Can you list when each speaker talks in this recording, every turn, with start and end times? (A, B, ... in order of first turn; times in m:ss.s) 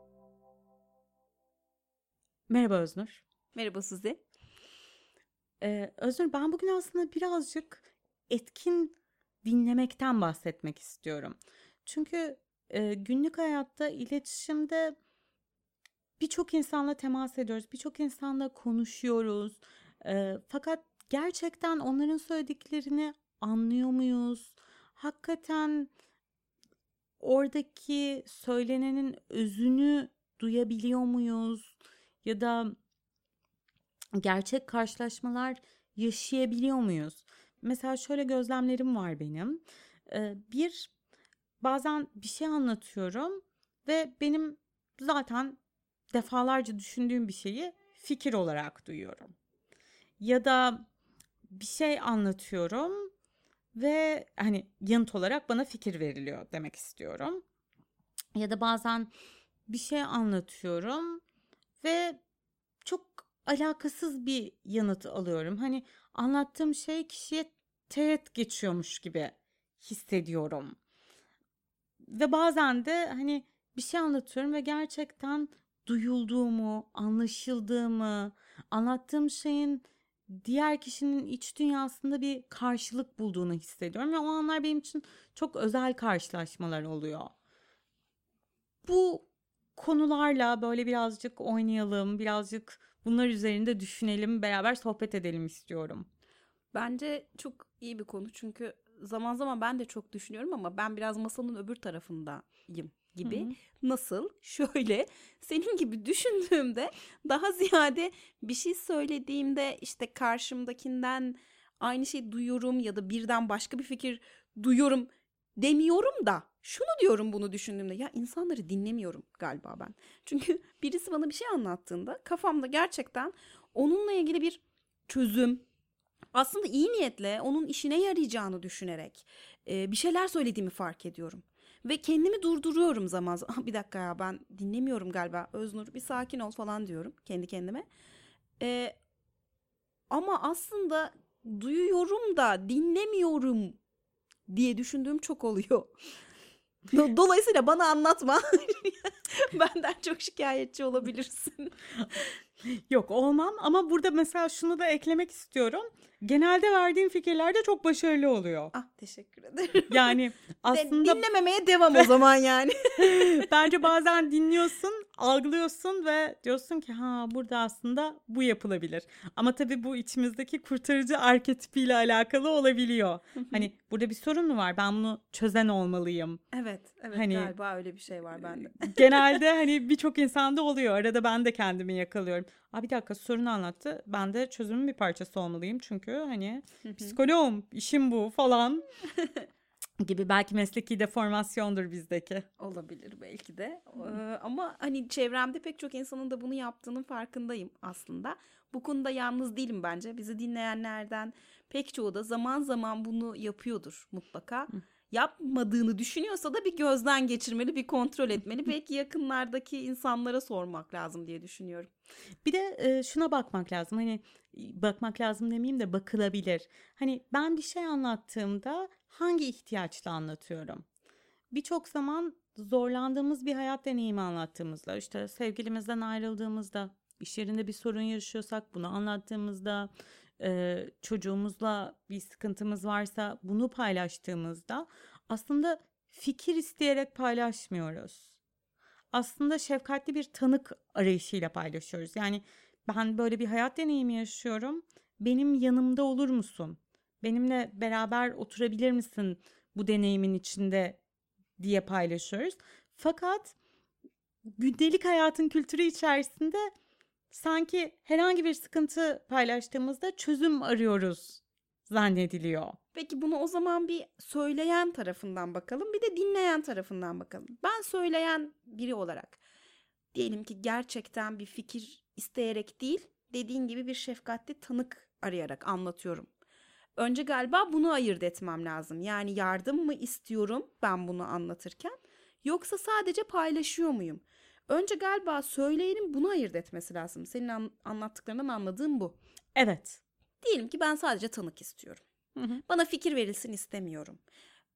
0:02.5-0:03.2 A
0:03.5-0:04.2 B
0:05.6-0:15.0 A
0:16.2-0:25.9 A
0:27.2-0:31.7 A
0:32.2-0:32.7 A
0:34.2-0:40.9 A
0:41.6-0:45.6 A
0:46.1-0:49.3 A
0:50.2-0:50.8 A
0:51.5-0:53.1 A
0:53.7-0:57.4 A
0:58.3-0:59.1 A
0:59.7-1:01.2 A
1:01.8-1:02.2 A
1:02.8-1:10.8 A
1:12.0-1:27.3 A
1:28.8-1:36.0 A
1:36.7-2:05.6 B
1:43.2-1:43.5 A
2:06.3-2:17.9 B
2:18.6-2:19.0 B
2:20.1-2:23.8 B
2:24.5-2:25.9 B
2:26.9-2:32.3 B
2:32.7-2:38.7 A
2:38.7-2:40.2 B
2:39.9-2:41.2 A
2:40.7-2:43.6 B
2:43.0-2:56.4 A
2:53.4-2:53.7 B
2:56.5-2:59.4 B
2:57.1-2:57.5 A
2:58.6-3:08.9 A
3:06.8-3:07.2 B
3:10.0-3:12.5 A
3:12.6-3:31.9 B
3:32.4-3:40.8 A
3:41.5-3:58.3 A
3:59.1-4:11.0 A
4:11.6-4:13.6 A
4:14.5-4:16.7 A
4:17.3-4:22.8 A
4:22.9-4:29.4 B
4:30.1-4:36.3 B
4:37.0-4:49.2 B
4:49.6-4:50.0 A
4:50.4-4:52.0 B
4:52.4-4:52.6 A
4:52.6-4:54.2 B